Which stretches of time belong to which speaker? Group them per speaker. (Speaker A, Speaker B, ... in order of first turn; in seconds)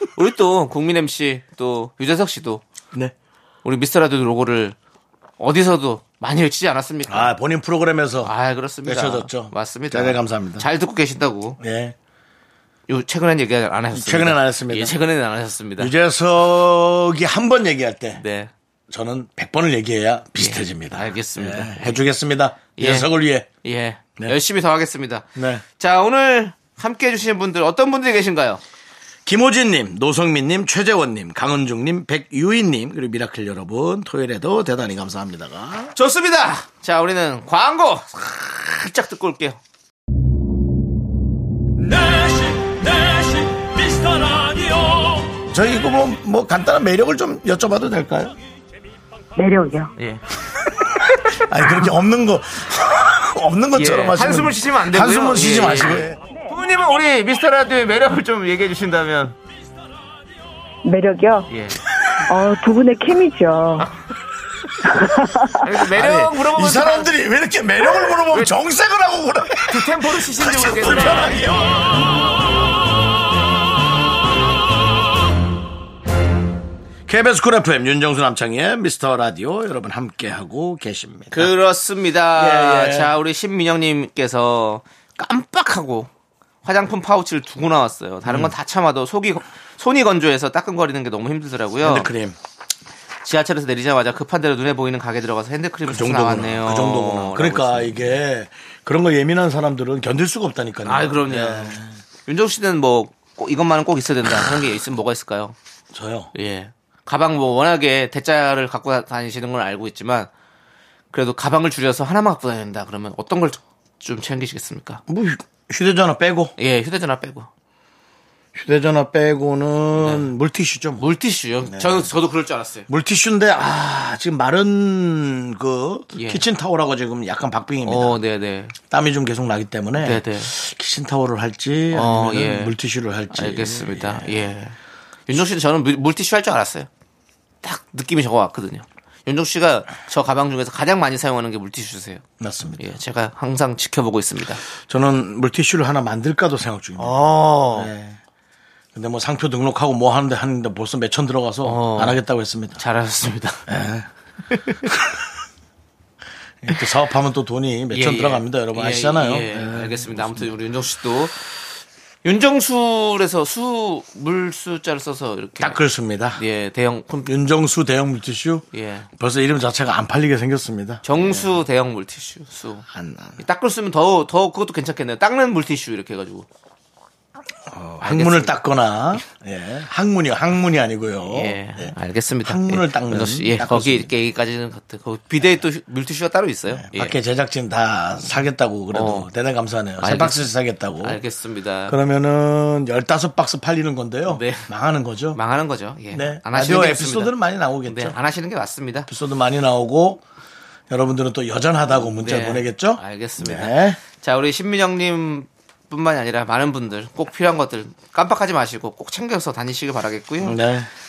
Speaker A: 0.1-2.6, 3.6-4.8, 5.4-7.3, 8.2-11.6, 12.9-15.9, 18.1-18.5, 20.4-22.0, 22.8-23.1, 23.6-28.6, 35.9-39.6, 50.0-50.2, 50.9-51.5, 53.7-59.4, 61.5-61.8, 65.6-67.1, 69.6-71.5, 81.3-86.1, 86.6-92.1, 93.2-98.2, 100.8-105.5, 106.3-110.3, 111.1-115.0, 116.6-117.5, 120.0-120.3, 121.0-122.9, 126.1-126.4, 127.8-128.7, 130.0-130.5, 131.9-132.7, 133.3-134.8, 135.3-136.9, 137.6-142.2, 142.8-144.6, 147.0-147.9, 151.6-152.2, 152.8-153.6, 157.9-161.3, 162.2-165.8, 166.3-167.3, 168.7-169.1, 171.0-172.8, 173.4-176.5, 178.0-178.6, 181.2-187.2, 188.9-189.3, 190.0-190.5, 191.0-192.0, 194.2-194.7, 195.3-197.3, 197.8-199.1, 201.9-210.6
Speaker B: 7.1-8.3, 8.8-10.7, 11.6-11.9, 13.9-14.9, 15.8-18.2, 18.9-23.5, 25.4-25.6, 29.2-35.9, 45.5-48.4, 51.4-56.2, 65.9-72.1, 77.1-81.5, 82.3-83.1, 88.2-88.5, 91.8-92.4, 95.8-102.0, 105.9-106.3, 115.1-116.5, 118.5-121.0, 121.7-122.1, 122.9-128.2, 128.9-134.4, 142.4-142.9, 144.8-148.2, 148.9-152.8, 153.7-154.1, 154.8-155.1, 156.6-160.5, 165.6-166.4, 167.2-171.5, 172.9-173.4, 177.7-184.1, 186.7-191.2, 191.9-195.4, 196.1-198.2, 199.1-200.2, 200.9-204.0, 210.4-210.9
Speaker C: 41.8-45.4, 59.6-60.4
Speaker D: 49.4-49.9, 60.8-61.5, 62.2-63.9, 64.8-65.6